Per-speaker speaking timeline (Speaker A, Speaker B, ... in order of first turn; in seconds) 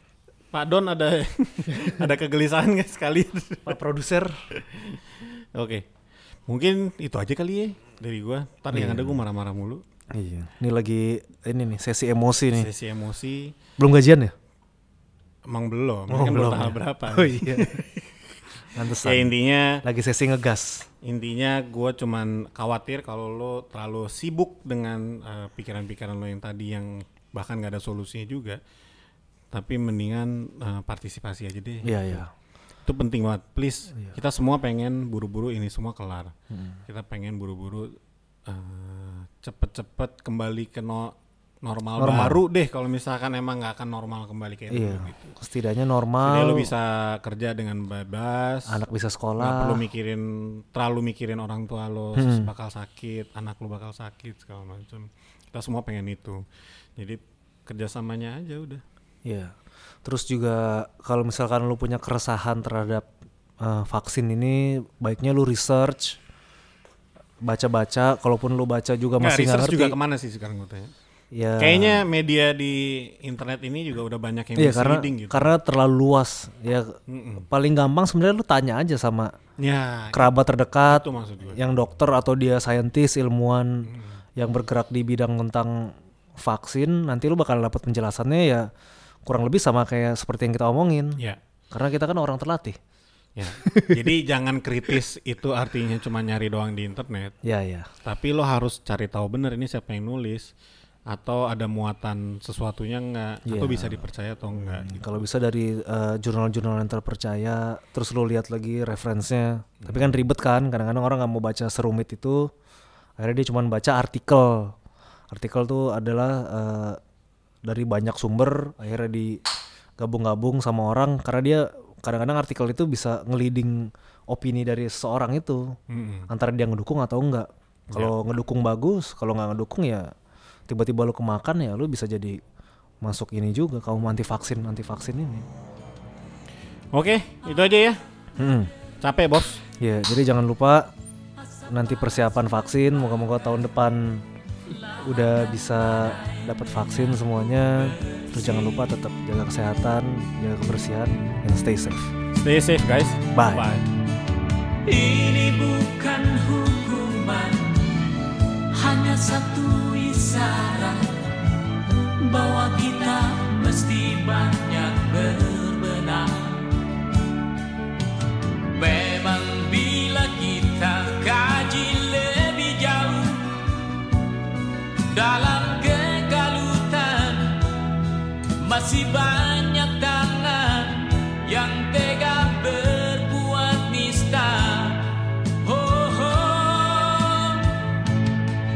Speaker A: 0.5-3.8, 4.5-5.8, 6.5-9.8, 12.5-13.6, 15.5-18.1, 18.8-19.8, 21.0-28.6, 29.5-32.2, 32.8-36.3, 36.9-45.3, 46.2-48.8, 49.4-56.4, 57.0-58.8, 69.2-70.9, 71.6-75.5, 77.1-77.5, 79.6-80.3, 80.9-81.6, 83.9-84.2, 93.3-97.3, 98.0-100.5, 101.1-105.2, 109.8-110.1, 125.9-126.3, 136.9-138.0, 139.0-139.6, 152.3-153.9
Speaker B: 3.6-4.4, 8.7-9.2, 10.1-12.7, 13.8-14.3, 16.1-17.8, 18.7-20.9, 31.8-32.3, 36.5-36.8, 42.0-42.4, 44.7-46.7, 48.7-49.8, 52.1-52.5, 59.2-66.2, 67.4-70.0, 71.3-72.0, 74.5-79.3, 80.1-88.7, 89.2-91.2, 91.7-92.8, 93.6-94.0, 97.4-97.9, 103.5-104.0, 104.6-112.5, 113.2-114.7, 115.3-117.0, 117.6-119.4, 120.0-125.8, 126.3-130.1, 130.7-132.4, 133.0-135.4, 138.4-138.7, 139.8-140.9, 141.7-144.2, 145.0-152.1, 153.3-153.7
Speaker C: 145.9-146.3, 154.8-158.1, 158.7-161.2, 162.2-166.8, 168.8-173.7, 175.1-177.6, 178.6-187.9